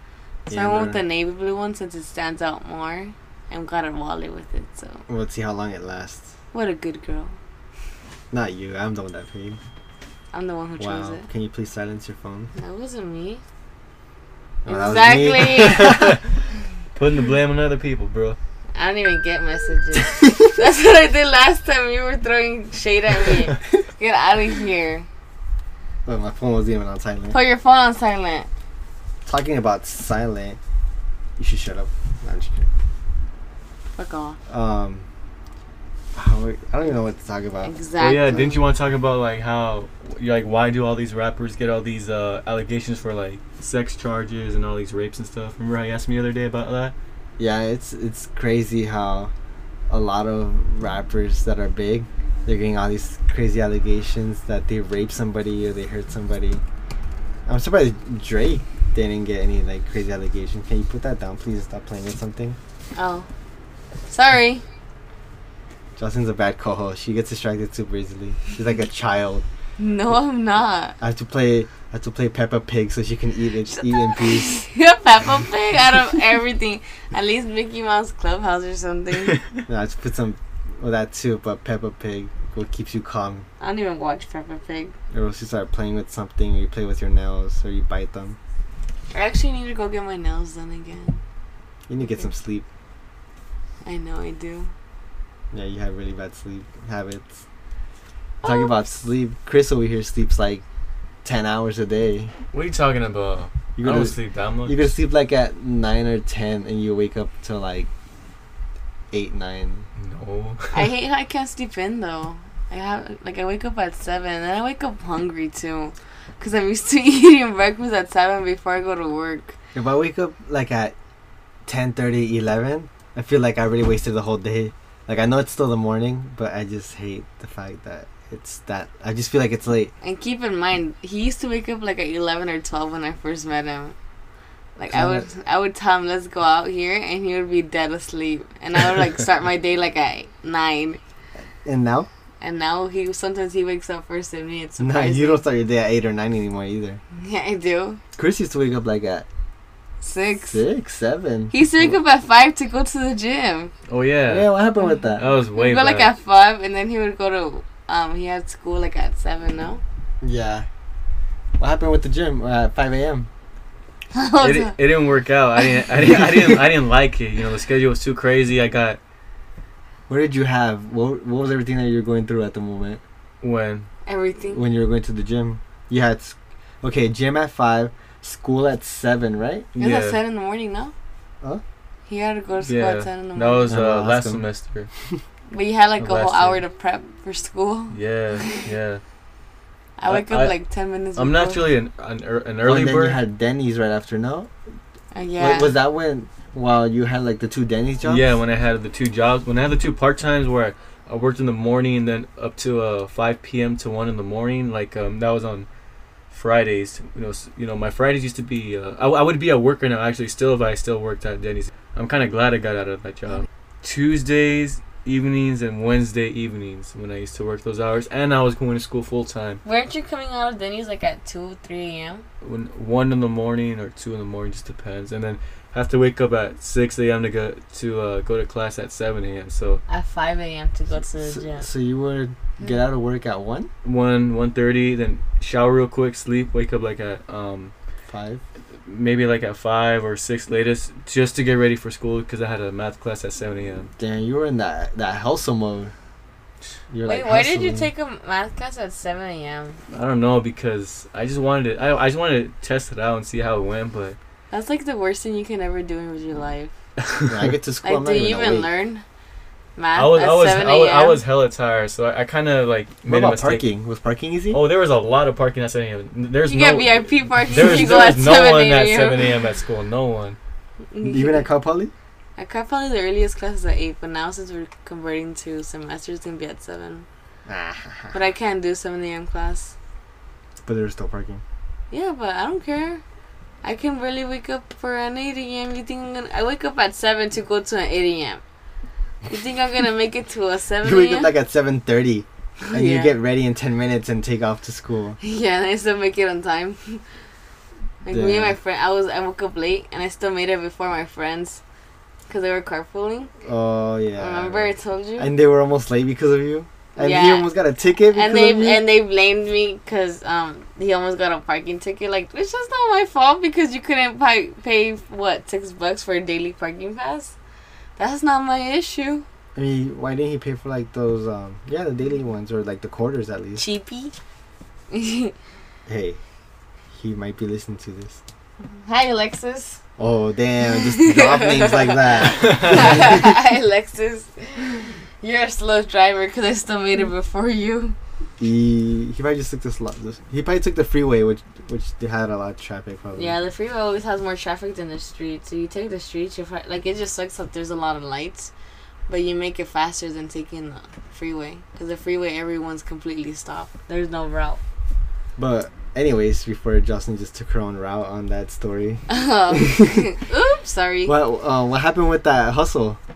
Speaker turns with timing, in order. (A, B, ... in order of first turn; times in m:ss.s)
0:00.5-0:01.0 A
0:00.5-0:05.0 B
0:05.1-0:06.3 A
0:06.5-0:07.4 B
0:08.3-0:09.6 A
0:10.3-0:11.2 B
0:10.8-0:12.5 A
0:12.6-0:13.4 B
0:14.6-0:16.2 A
0:14.7-0:16.0 B
0:16.9-0:18.4 C
0:18.8-0:25.1 B
0:26.1-0:27.4 A
0:27.3-0:28.5 B
0:29.3-0:30.6 A
0:31.4-0:32.7 A
0:34.0-0:34.4 B
0:34.5-0:35.1 A
0:36.1-0:37.7 A
0:37.6-0:38.7 B
0:38.0-0:46.9 C
0:47.4-0:49.3 A
0:49.9-0:56.6 A
0:57.5-1:02.6 A
1:03.0-1:03.3 B
1:04.1-1:04.6 B
1:06.0-1:09.5 A
1:09.8-1:11.0 B
1:11.0-1:14.6 A
1:14.1-1:19.4 B
1:19.7-1:23.5 A
1:23.6-1:25.0 B
1:25.1-1:28.4 A
1:29.1-1:31.2 B
1:31.9-1:32.7 A
1:33.8-1:34.7 B
1:35.5-1:37.4 A
1:38.4-1:38.7 B
1:38.4-1:40.6 A
1:41.2-1:42.3 A
1:42.5-1:44.8 C
1:43.8-1:47.9 A
1:49.1-1:49.9 A
1:50.0-1:50.9 C
1:50.7-1:59.6 B
1:59.7-2:01.0 A
2:01.7-2:09.9 A
2:10.0-2:14.0 B
2:14.8-2:21.0 B
2:14.9-2:15.3 A
2:21.6-2:22.1 A
2:22.4-2:25.4 B
2:24.8-2:27.0 A
2:27.2-2:28.0 B
2:28.2-2:29.3 A
2:30.0-2:30.6 B
2:30.5-2:31.9 A
2:31.5-2:33.7 B
2:33.9-2:34.5 C
2:34.3-2:35.2 A
2:35.2-2:36.1 C
2:35.5-2:39.8 B
2:40.2-2:40.7 A
2:41.6-2:43.3 A
2:44.1-2:44.8 B
2:44.4-2:49.0 C
2:50.1-2:53.0 A
2:53.4-2:53.9 C
2:54.1-2:54.6 B
2:54.5-2:59.7 A
2:59.8-3:00.2 C
2:59.8-3:00.9 B
3:02.1-3:03.7 B
3:02.6-3:04.9 C
3:03.7-3:04.4 A
3:05.5-3:08.6 B
3:06.0-3:06.6 C
3:07.9-3:09.0 C
3:10.0-3:11.7 B
3:10.1-3:10.6 C
3:11.2-3:13.2 C
3:12.6-3:14.5 A
3:15.1-3:15.7 B
3:15.4-3:18.2 A
3:18.0-3:25.7 C
3:26.3-3:39.6 C
3:39.6-3:42.2 B
3:42.4-3:49.8 C
3:49.9-3:51.7 B
3:51.2-3:53.7 A
3:53.8-3:57.7 C
3:58.1-3:58.4 A
3:58.9-4:03.9 C
4:04.0-4:05.9 A
4:06.9-4:07.9 A
4:07.0-4:09.8 B
4:09.9-4:14.2 C
4:14.5-4:16.7 B
4:17.3-4:18.7 A
4:17.8-4:19.0 B
4:19.8-4:21.2 B
4:19.9-4:23.6 C
4:23.1-4:24.6 A
4:24.5-4:30.4 C
4:26.4-4:29.3 B
4:30.9-4:31.5 B
4:31.0-4:31.9 A
4:32.4-4:37.1 B
4:37.5-4:38.1 A
4:38.1-4:39.7 B
4:40.6-4:41.4 A
4:41.9-4:43.0 B
4:43.6-4:48.4 B
4:49.3-4:51.3 B
4:50.8-4:55.2 A
4:52.6-4:53.1 B
4:55.2-4:57.0 B
4:58.0-5:01.6 B
4:58.1-4:58.6 A
5:02.3-5:03.3 B
5:03.4-5:08.8 A
5:04.2-5:05.3 B
5:07.0-5:07.5 B
5:08.1-5:17.4 B
5:18.0-5:19.2 B
5:19.6-5:23.6 A
5:23.6-5:24.1 B
5:24.9-5:25.3 B
5:25.9-5:26.2 A
5:26.9-5:28.2 A
5:28.8-5:29.8 B
5:30.0-5:33.3 A
5:30.9-5:38.0 B
5:32.4-5:32.8 C
5:38.4-5:43.4 A
5:43.2-5:48.5 B
5:49.1-5:54.6 B
5:55.4-5:59.9 A
5:59.1-6:01.1 B
6:01.1-6:03.0 A